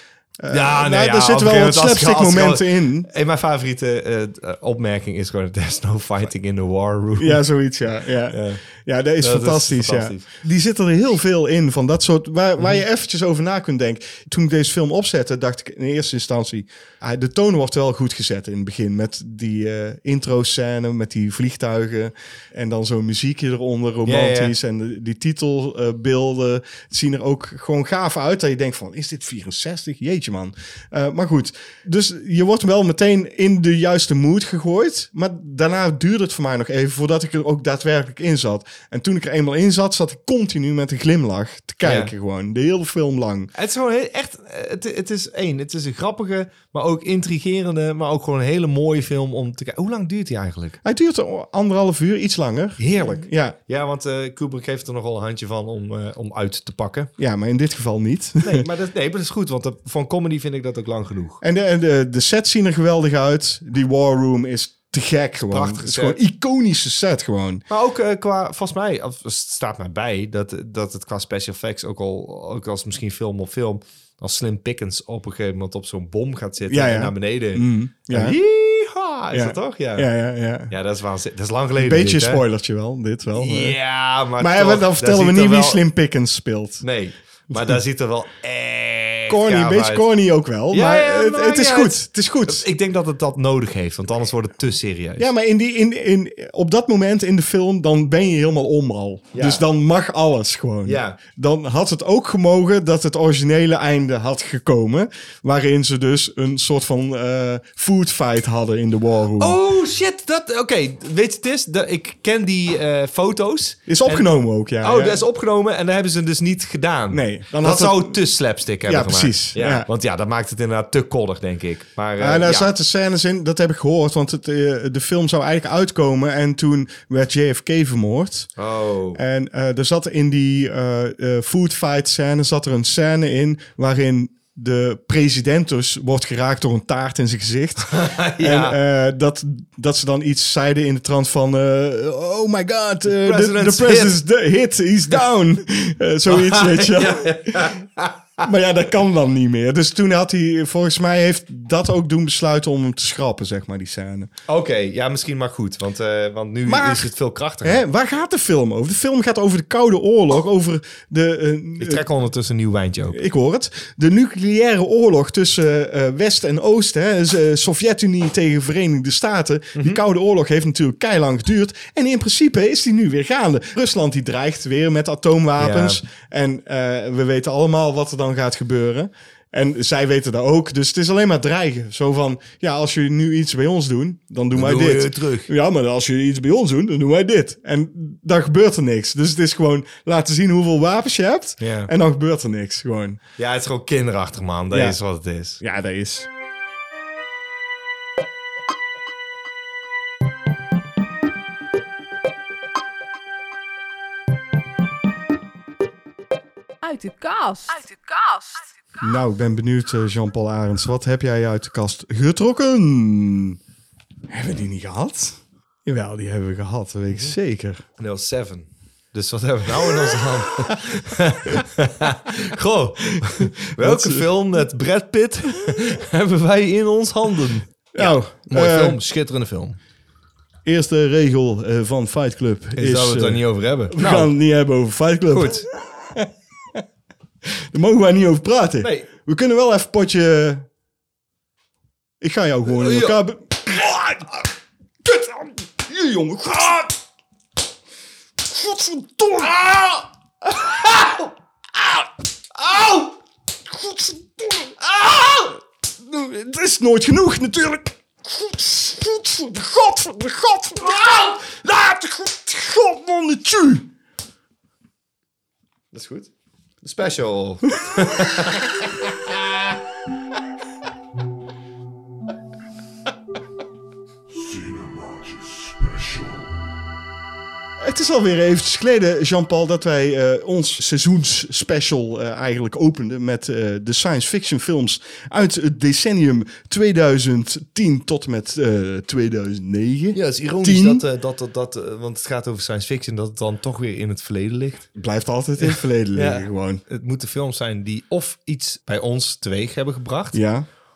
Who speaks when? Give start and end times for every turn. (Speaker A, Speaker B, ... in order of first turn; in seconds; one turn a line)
Speaker A: 0.4-3.1
Speaker B: 0.5-7.4
Speaker A: 7.2-43.5
Speaker B: 8.3-8.6
Speaker B: 9.2-10.3
Speaker B: 12.6-12.8
Speaker B: 24.1-24.5
Speaker B: 41.8-42.1
Speaker B: 43.5-50.8
Speaker A: 50.8-53.6
Speaker B: 52.8-57.1
Speaker A: 57.2-58.7
Speaker B: 58.4-61.4
Speaker A: 61.4-67.7
Speaker B: 65.5-66.2
Speaker B: 67.7-80.1
Speaker A: 76.7-78.4
Speaker A: 79.3-80.7
Speaker B: 80.7-82.4
Speaker A: 81.8-83.8
Speaker B: 83.4-85.8
Speaker A: 84.4-86.8
Speaker B: 86.8-90.1
Speaker A: 89.3-92.7
Speaker B: 90.7-95.3
Speaker A: 95.2-109.6
Speaker B: 99.3-99.7
Speaker B: 100.8-101.2
Speaker B: 109.4-114.3
Speaker A: 113.9-115.2
Speaker B: 114.8-122.7
Speaker A: 117.1-118.2
Speaker A: 118.8-119.9
Speaker A: 122.2-128.5
Speaker B: 128.6-129.2
Speaker A: 129.2-147.8
Speaker B: 137.9-138.8
Speaker B: 143.1-144.2
Speaker B: 146.3-148.4
Speaker A: 148.4-154.3
Speaker B: 154.5-157.8
Speaker A: 156.7-157.1
Speaker A: 157.6-162.0
Speaker B: 161.8-163.2
Speaker A: 163.1-193.2
Speaker B: 169.8-170.0
Speaker B: 175.6-176.0
Speaker B: 184.5-185.5
Speaker B: 191.6-191.9
Speaker B: 193.4-195.6
Speaker A: 194.7-195.0
Speaker A: 195.6-196.3
Speaker C: 206.8-208.9
Speaker A: 209.0-213.6
Speaker A: 214.3-217.8
Speaker B: 218.0-229.8
Speaker A: 223.1-224.3
Speaker A: 227.9-229.0
Speaker A: 230.7-236.8
Speaker B: 232.8-234.3
Speaker B: 235.3-235.7
Speaker A: 237.7-240.7
Speaker B: 238.8-239.1
Speaker A: 242.2-244.5
Speaker B: 242.7-243.2
Speaker A: 245.0-247.0
Speaker A: 248.4-253.2
Speaker A: 253.7-263.9
Speaker B: 265.9-266.3
Speaker B: 266.8-269.7
Speaker A: 277.8-291.0
Speaker B: 290.1-294.9
Speaker A: 294.9-296.8
Speaker B: 295.6-300.4
Speaker A: 300.3-300.7